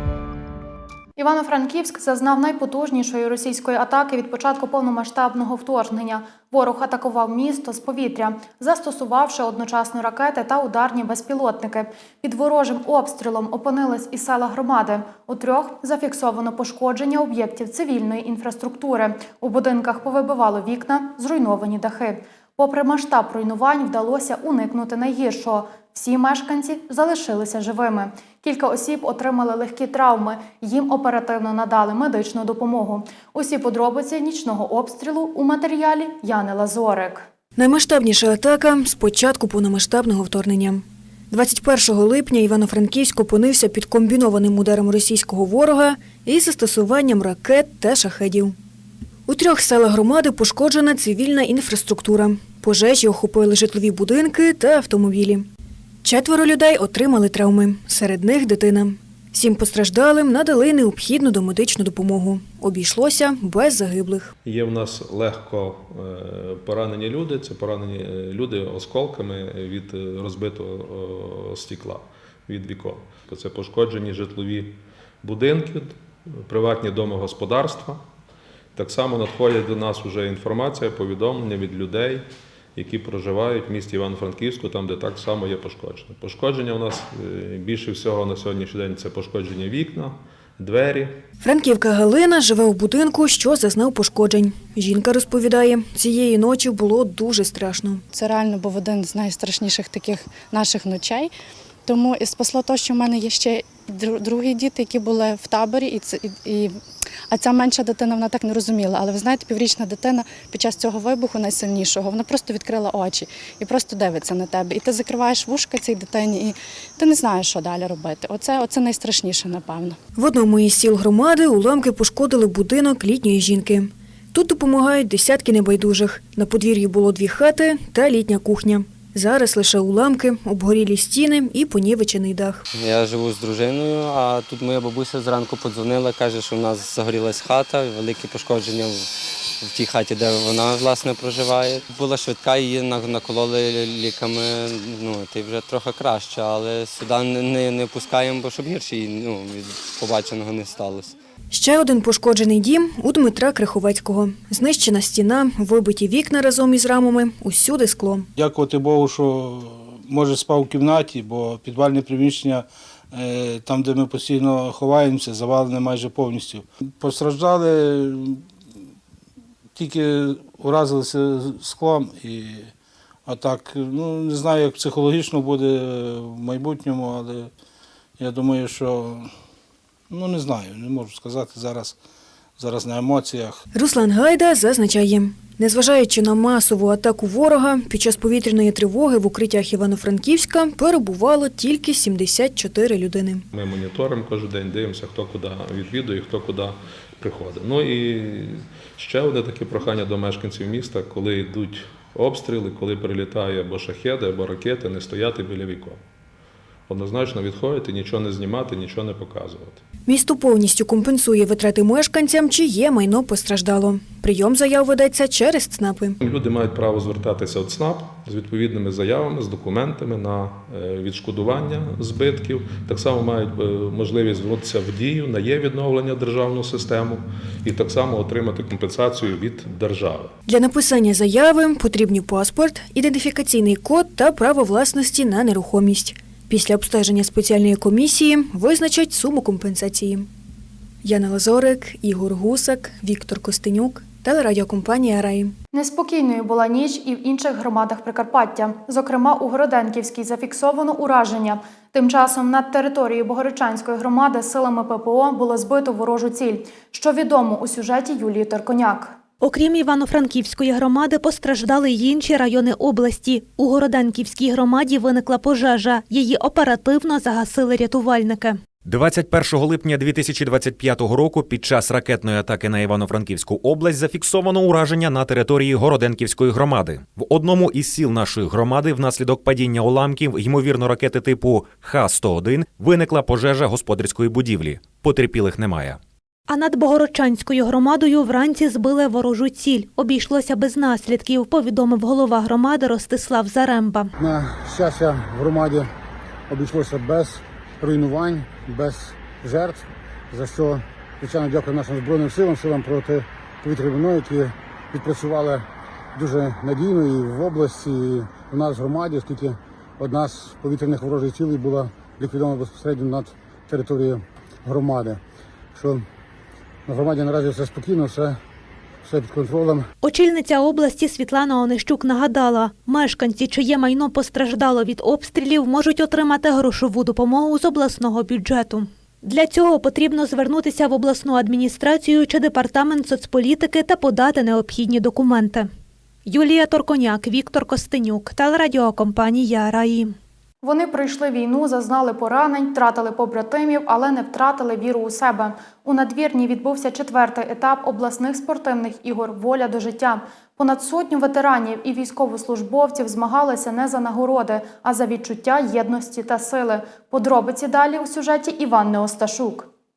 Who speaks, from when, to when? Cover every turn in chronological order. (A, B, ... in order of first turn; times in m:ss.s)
0:01.2-0:37.3 A
0:37.6-0:48.6 B
0:49.3-0:55.5 B
0:56.0-1:04.3 B
1:04.4-1:18.0 C
1:18.8-1:31.2 C
1:31.4-1:38.0 B
1:38.1-1:41.3 D
1:41.9-2:00.0 D
2:00.2-2:12.6 B
2:12.7-2:19.1 E
2:19.6-2:31.2 E
2:31.5-2:38.3 B
2:38.4-2:48.4 F
2:49.8-2:52.7 F
2:53.3-2:57.5 F
2:58.2-2:59.3 F
3:00.1-3:02.0 F
3:02.6-3:03.6 F
3:03.7-3:13.4 B
3:13.5-3:26.0 C
3:26.9-3:29.8 C
3:30.1-3:36.2 B
3:36.2-3:50.3 C
3:50.5-4:00.3 B
4:01.0-4:05.5 B
4:05.7-4:19.2 A
4:19.4-4:28.6 G
4:28.8-4:46.0 H
4:46.5-4:54.1 G
4:54.2-4:55.9 I
4:56.5-5:15.2 I
5:15.8-5:16.0 I
5:16.9-5:18.4 I
5:19.0-5:19.9 I
5:20.0-5:35.7 G
5:36.3-5:40.2 G
5:40.6-5:59.7 A